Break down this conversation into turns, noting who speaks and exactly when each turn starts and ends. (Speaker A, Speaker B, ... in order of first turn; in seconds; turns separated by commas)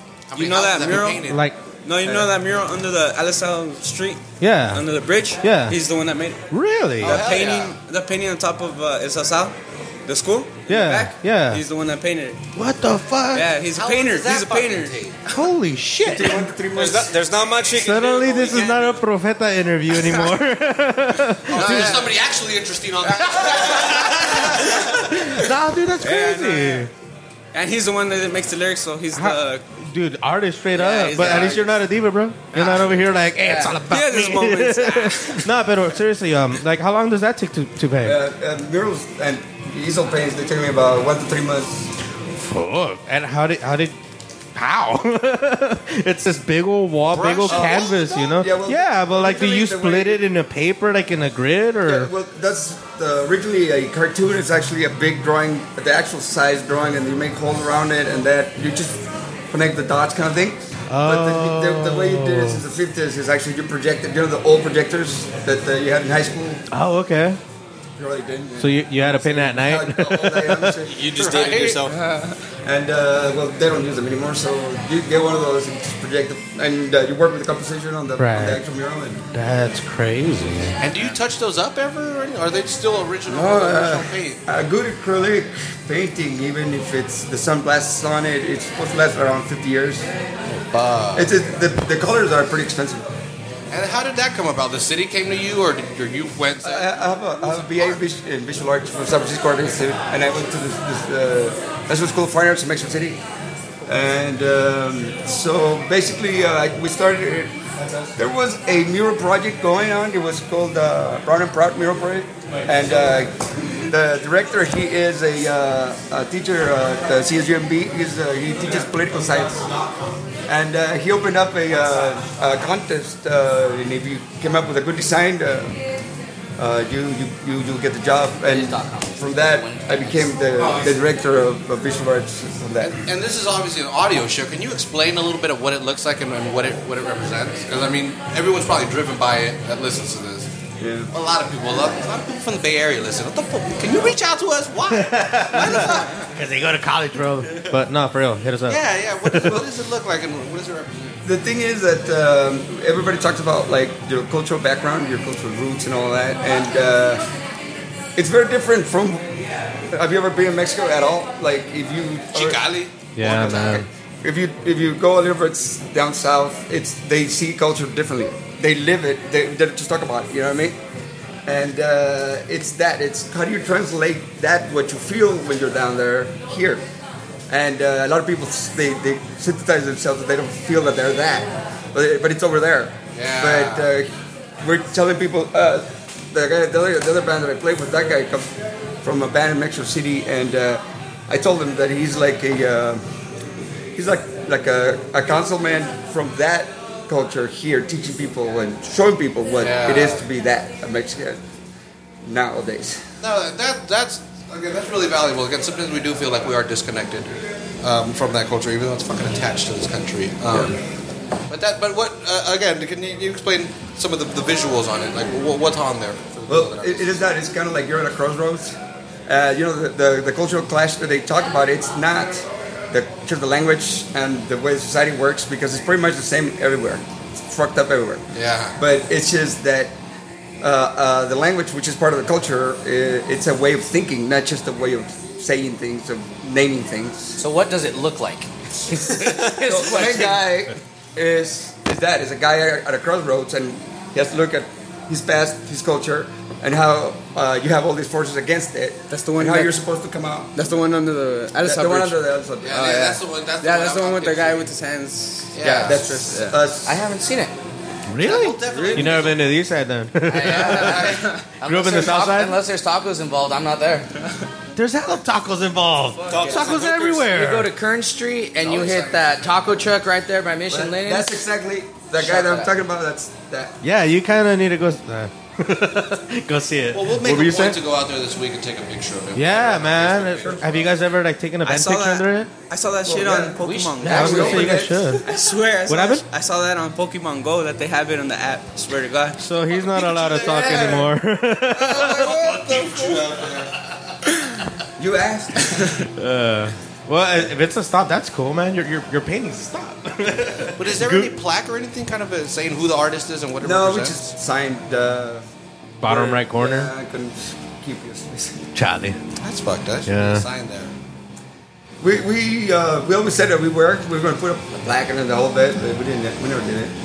Speaker A: 0.3-1.4, Speaker B: 0.3-6.5, Speaker C: 1.1-1.6, Speaker D: 2.0-2.3, Speaker C: 4.4-4.9, Speaker C: 5.4-5.8, Speaker C: 6.5-7.2, Speaker B: 7.0-12.4, Speaker A: 7.0-7.8, Speaker C: 10.7-11.6, Speaker C: 12.5-13.5, Speaker B: 13.3-15.5, Speaker A: 13.7-15.2, Speaker C: 15.3-16.4, Speaker D: 16.1-17.2, Speaker E: 16.7-18.9, Speaker C: 17.7-22.0, Speaker A: 18.4-18.9, Speaker A: 21.4-25.0, Speaker B: 21.5-22.2, Speaker B: 23.0-25.4, Speaker C: 24.6-26.9, Speaker B: 26.0-26.9, Speaker B: 27.5-29.6, Speaker C: 29.1-38.2, Speaker B: 30.7-31.7, Speaker B: 32.5-33.0, Speaker F: 33.4-33.7, Speaker B: 33.8-35.5, Speaker D: 38.0-41.9, Speaker C: 42.4-43.9, Speaker C: 44.5-52.1, Speaker A: 47.1-48.4, Speaker D: 47.5-50.2, Speaker D: 51.9-66.6, Speaker C: 60.9-62.6, Speaker C: 66.7-67.4, Speaker D: 68.0-71.0, Speaker C: 68.6-70.8, Speaker E: 70.8-72.0, Speaker A: 70.9-71.9, Speaker B: 71.9-72.4, Speaker D: 72.6-79.2, Speaker C: 78.2-78.6, Speaker C: 79.3-80.8, Speaker A: 80.8-84.4, Speaker D: 83.3-90.1, Speaker A: 90.7-91.3, Speaker D: 91.1-93.0, Speaker A: 93.7-96.9, Speaker D: 96.6-103.2, Speaker D: 103.8-119.7, Speaker A: 119.4-120.1, Speaker D: 120.5-125.8, Speaker D: 126.6-132.9, Speaker F: 128.5-130.5, Speaker A: 132.8-140.5, Speaker D: 140.8-141.1, Speaker A: 141.1-146.3, Speaker C: 144.9-149.6, Speaker A: 148.7-151.1, Speaker D: 151.2-157.2, Speaker D: 158.2-159.2, Speaker D: 159.9-162.6, Speaker A: 162.3-163.9, Speaker C: 163.1-163.9, Speaker D: 164.2-170.8, Speaker D: 171.4-176.8, Speaker D: 177.5-184.1, Speaker A: 183.1-183.9, Speaker D: 184.6-188.5, Speaker D: 189.0-193.0, Speaker D: 193.9-201.4, Speaker A: 199.6-200.2, Speaker D: 202.2-203.0, Speaker A: 203.2-207.3, Speaker A: 207.8-210.8, Speaker A: 211.5-217.3, Speaker D: 216.5-228.2, Speaker A: 228.3-228.8, Speaker D: 228.8-229.9, Speaker D: 230.6-237.4, Speaker F: 237.4-240.4, Speaker D: 239.5-250.5, Speaker B: 249.1-249.7, Speaker B: 250.6-252.2, Speaker D: 251.6-252.9, Speaker A: 252.6-254.7, Speaker B: 252.7-256.6, Speaker A: 255.5-256.0, Speaker D: 255.6-257.0, Speaker F: 256.9-257.5, Speaker C: 258.1-262.6, Speaker A: 258.2-259.5, Speaker B: 258.7-259.2, Speaker F: 260.3-264.1, Speaker A: 260.6-261.2, Speaker B: 260.8-261.4, Speaker C: 264.7-267.7, Speaker B: 266.2-266.7, Speaker E: 266.3-267.3, Speaker F: 267.2-271.4, Speaker A: 268.7-269.1, Speaker D: 270.7-273.8, Speaker F: 272.2-272.7, Speaker C: 273.8-277.8, Speaker A: 276.9-280.6, Speaker C: 279.3-282.5, Speaker B: 281.6-289.4, Speaker D: 283.0-283.6, Speaker F: 283.6-284.6, Speaker C: 284.0-285.3, Speaker D: 284.1-285.2, Speaker C: 285.9-286.2, Speaker C: 289.4-292.4, Speaker A: 289.7-291.0, Speaker D: 290.4-291.1, Speaker D: 291.7-293.4, Speaker A: 291.9-293.7, Speaker D: 295.0-296.0, Speaker C: 296.1-301.3, Speaker A: 300.8-304.3, Speaker D: 303.6-305.4, Speaker C: 306.0-306.9, Speaker D: 306.0-308.6, Speaker C: 308.7-309.2, Speaker A: 309.4-310.9, Speaker C: 310.1-310.5, Speaker D: 312.0-316.9